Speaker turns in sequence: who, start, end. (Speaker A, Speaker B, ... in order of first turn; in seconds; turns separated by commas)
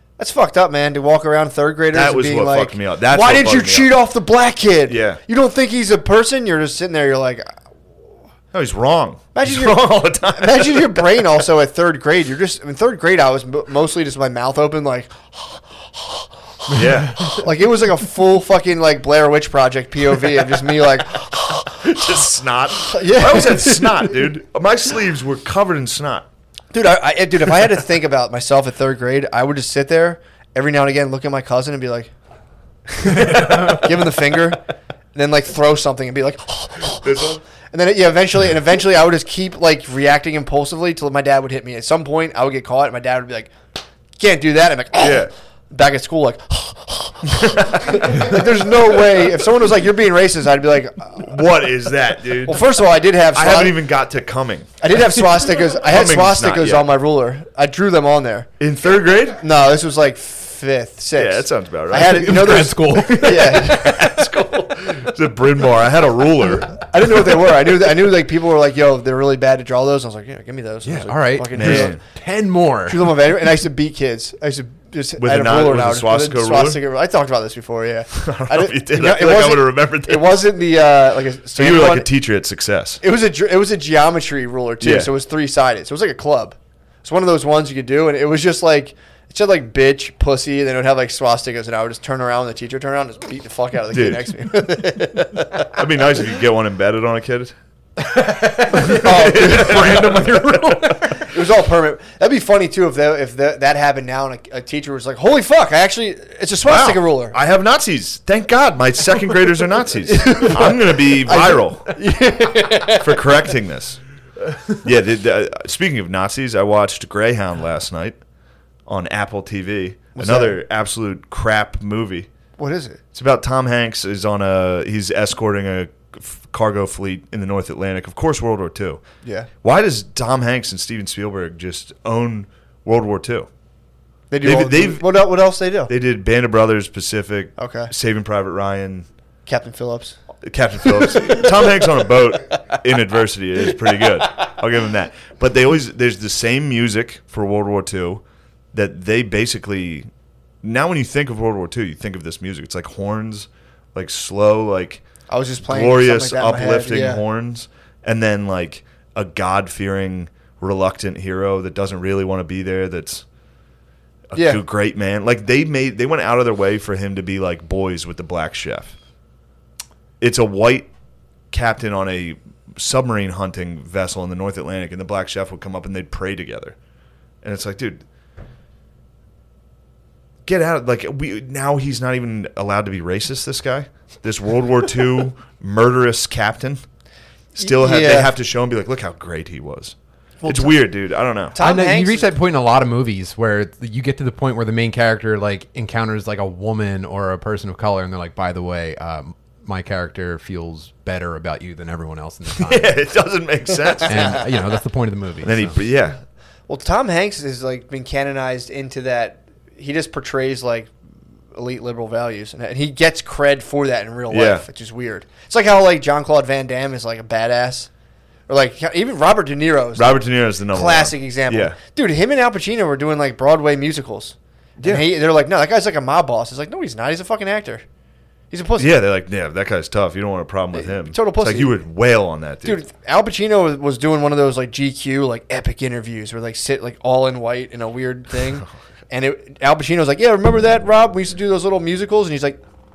Speaker A: 0.2-7.6, Speaker B: 1.9-4.0, Speaker B: 4.9-5.2, Speaker B: 8.5-11.2, Speaker A: 9.3-22.2, Speaker B: 16.7-17.4, Speaker B: 21.8-26.3, Speaker A: 22.7-24.2, Speaker A: 26.7-32.1, Speaker A: 32.9-34.6, Speaker B: 33.1-33.8, Speaker A: 35.1-43.5, Speaker B: 37.0-37.4, Speaker A: 44.2-51.3, Speaker B: 45.0-45.3, Speaker B: 47.2-49.2, Speaker B: 51.2-52.7, Speaker A: 52.4-53.8, Speaker B: 53.3-54.7, Speaker A: 54.8-58.5, Speaker B: 55.4-56.9, Speaker B: 58.6-59.4, Speaker A: 59.4-64.0, Speaker B: 61.1-66.8, Speaker C: 62.0-64.1, Speaker A: 66.9-72.0, Speaker C: 70.8-73.1, Speaker B: 71.5-72.0, Speaker A: 72.9-82.1, Speaker B: 75.2-76.8, Speaker B: 78.1-80.5, Speaker B: 81.5-83.0, Speaker A: 83.0-95.7, Speaker B: 84.8-85.1, Speaker B: 93.9-94.3, Speaker B: 95.7-97.5, Speaker C: 98.0-101.3, Speaker B: 98.8-100.9, Speaker A: 98.8-100.1, Speaker A: 101.2-107.4, Speaker B: 106.6-111.9, Speaker A: 110.1-113.3, Speaker B: 112.9-114.0, Speaker B: 114.8-118.2, Speaker B: 118.9-122.3, Speaker A: 120.2-120.6, Speaker A: 122.6-123.0, Speaker B: 123.1-129.0, Speaker B: 129.6-133.5, Speaker A: 134.3-135.9, Speaker B: 134.4-135.2, Speaker B: 135.9-139.1, Speaker A: 137.6-137.9, Speaker A: 139.5-140.2, Speaker B: 140.4-150.1, Speaker B: 150.6-155.0, Speaker A: 155.3-157.2, Speaker B: 155.6-163.2, Speaker B: 164.3-168.9, Speaker A: 164.3-164.6, Speaker B: 170.2-170.9, Speaker B: 171.5-176.8, Speaker B: 177.4-178.0, Speaker B: 180.4-186.8, Speaker B: 187.6-189.9, Speaker A: 187.6-188.3, Speaker A: 190.4-190.8, Speaker B: 190.5-191.6, Speaker A: 191.5-192.3, Speaker C: 191.6-203.0, Speaker B: 202.6-204.6, Speaker C: 204.1-205.8, Speaker B: 205.4-206.2, Speaker A: 206.7-210.9, Speaker A: 211.5-217.9, Speaker B: 214.3-214.6, Speaker A: 218.5-227.8, Speaker B: 219.9-221.8, Speaker B: 224.8-225.1, Speaker A: 228.5-229.0, Speaker B: 228.8-232.8, Speaker A: 230.8-231.8, Speaker A: 232.6-242.6